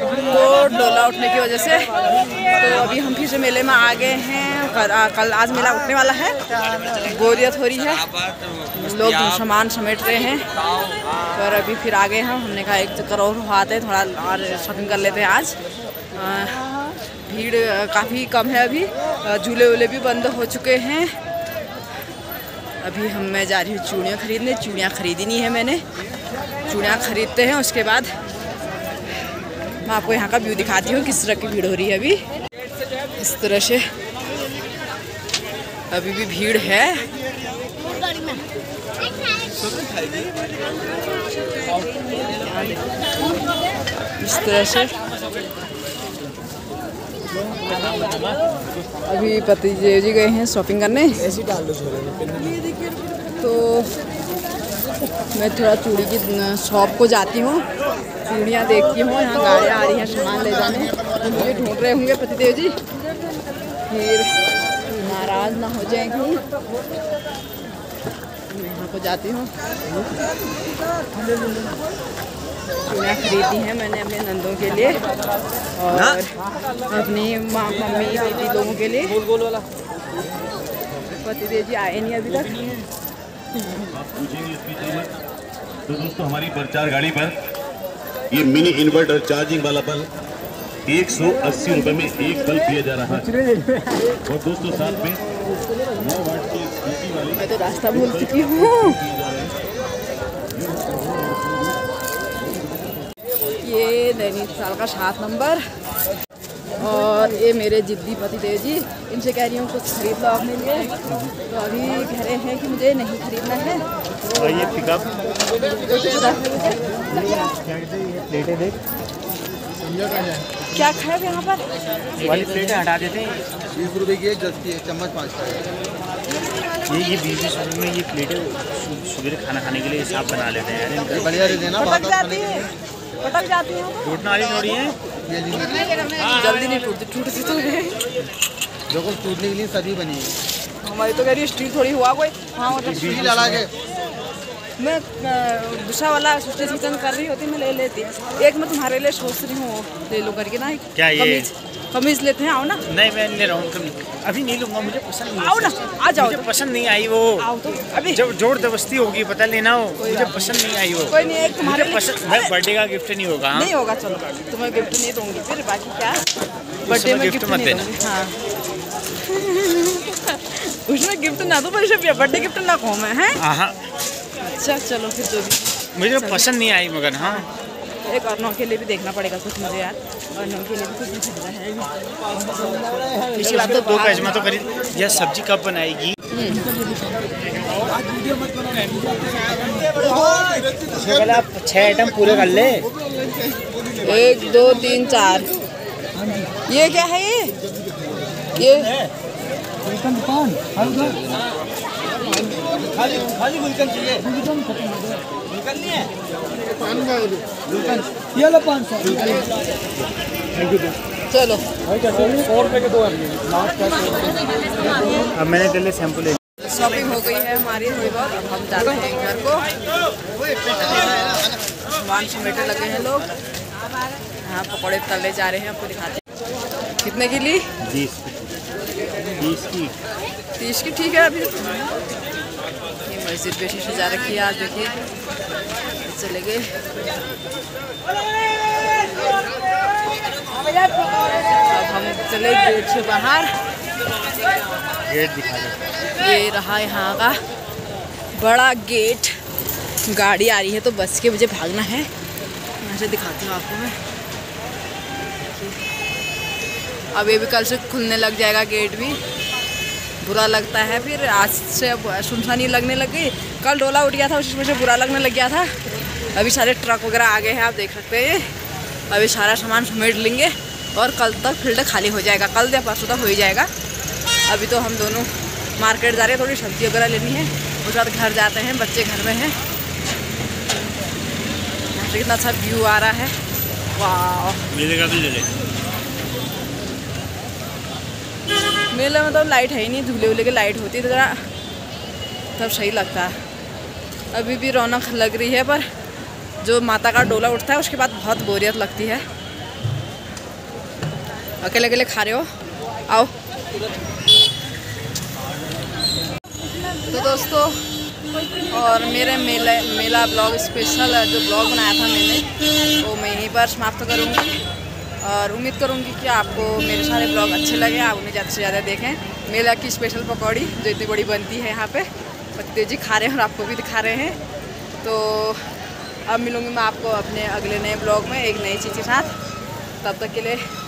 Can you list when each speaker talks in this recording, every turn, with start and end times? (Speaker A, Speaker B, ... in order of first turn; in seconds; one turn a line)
Speaker A: 0.2-1.9
Speaker A: 2.5-6.4
Speaker A: 7.0-10.5
Speaker A: 11.3-15.6
Speaker A: 16.1-16.7
Speaker A: 17.3-21.1
Speaker A: 22.8-25.8
Speaker A: 26.6-28.1
Speaker A: 29.8-32.2
Speaker A: 33.2-33.9
Speaker A: 35.9-37.1
Speaker A: 42.4-42.9
Speaker A: 44.2-44.9
Speaker B: 48.0-48.4
Speaker A: 49.0-51.4
Speaker A: 53.4-54.0
Speaker A: 55.3-57.7
Speaker A: 58.2-62.8
Speaker A: 63.9-66.4
Speaker A: 68.5-69.5
Speaker A: 72.9-75.0
Speaker A: 75.8-76.3
Speaker A: 76.9-79.2
Speaker A: 81.2-82.8
Speaker C: 83.9-85.2
Speaker C: 85.9-87.4
Speaker C: 88.3-90.1
Speaker C: 90.9-93.4
Speaker C: 94.0-95.3
Speaker C: 95.9-97.4
Speaker A: 97.3-99.0
Speaker C: 97.9-99.6
Speaker C: 100.7-101.0
Speaker A: 103.6-105.6
Speaker A: 106.8-110.9
Speaker A: 111.5-113.8
Speaker B: 114.3-115.1
Speaker A: 115.9-116.8
Speaker B: 117.1-118.8
Speaker A: 120.7-121.7
Speaker A: 122.2-122.9
Speaker B: 122.2-123.4
Speaker D: 123.7-125.7
Speaker B: 126.9-131.6
Speaker D: 131.1-132.7
Speaker A: 131.8-132.7
Speaker A: 133.2-134.1
Speaker B: 134.0-135.0
Speaker D: 135.2-136.1
Speaker A: 136.2-138.0
Speaker D: 138.9-140.4
Speaker A: 140.8-143.3
Speaker B: 142.7-143.6
Speaker D: 142.9-143.7
Speaker A: 144.8-152.8
Speaker B: 150.9-151.5
Speaker B: 152.9-157.5
Speaker A: 155.4-156.5
Speaker A: 157.4-158.2
Speaker B: 158.1-163.7
Speaker A: 160.0-160.5
Speaker A: 161.1-162.5
Speaker A: 163.5-166.3
Speaker A: 166.9-168.4
Speaker B: 166.9-167.9
Speaker A: 169.2-173.4
Speaker B: 173.4-173.8
Speaker A: 174.4-175.6
Speaker B: 175.9-177.5
Speaker A: 176.1-176.5
Speaker A: 178.1-181.9
Speaker A: 183.3-184.4
Speaker B: 183.3-186.2
Speaker A: 186.3-186.7
Speaker B: 190.0-192.9
Speaker A: 194.0-195.5
Speaker A: 196.7-197.5
Speaker A: 198.6-198.9
Speaker B: 200.2-201.4
Speaker B: 207.8-209.4
Speaker A: 211.3-211.6
Speaker B: 215.3-216.4
Speaker A: 216.6-219.7
Speaker A: 220.7-223.3
Speaker A: 224.4-226.2
Speaker A: 227.0-227.7
Speaker B: 227.8-228.5
Speaker B: 229.4-229.9
Speaker A: 230.6-231.9
Speaker A: 233.1-235.0
Speaker A: 236.0-236.7
Speaker A: 241.7-243.5
Speaker B: 245.1-245.8
Speaker A: 246.2-247.4
Speaker A: 248.4-249.3
Speaker A: 250.1-252.1
Speaker A: 252.8-254.0
Speaker A: 255.5-255.8
Speaker A: 257.1-259.2
Speaker A: 260.2-265.7
Speaker A: 266.3-268.5
Speaker A: 269.1-273.7
Speaker A: 274.5-279.6
Speaker A: 281.9-283.3
Speaker A: 283.9-284.6
Speaker B: 284.7-285.5
Speaker A: 288.9-291.4
Speaker A: 292.6-293.4
Speaker A: 294.3-295.9
Speaker A: 296.6-299.2
Speaker A: 301.6-302.5
Speaker A: 303.1-303.3
Speaker A: 307.1-307.8
Speaker A: 308.7-314.6
Speaker A: 315.2-324.4
Speaker A: 325.0-325.7
Speaker A: 326.3-329.3
Speaker A: 330.0-330.6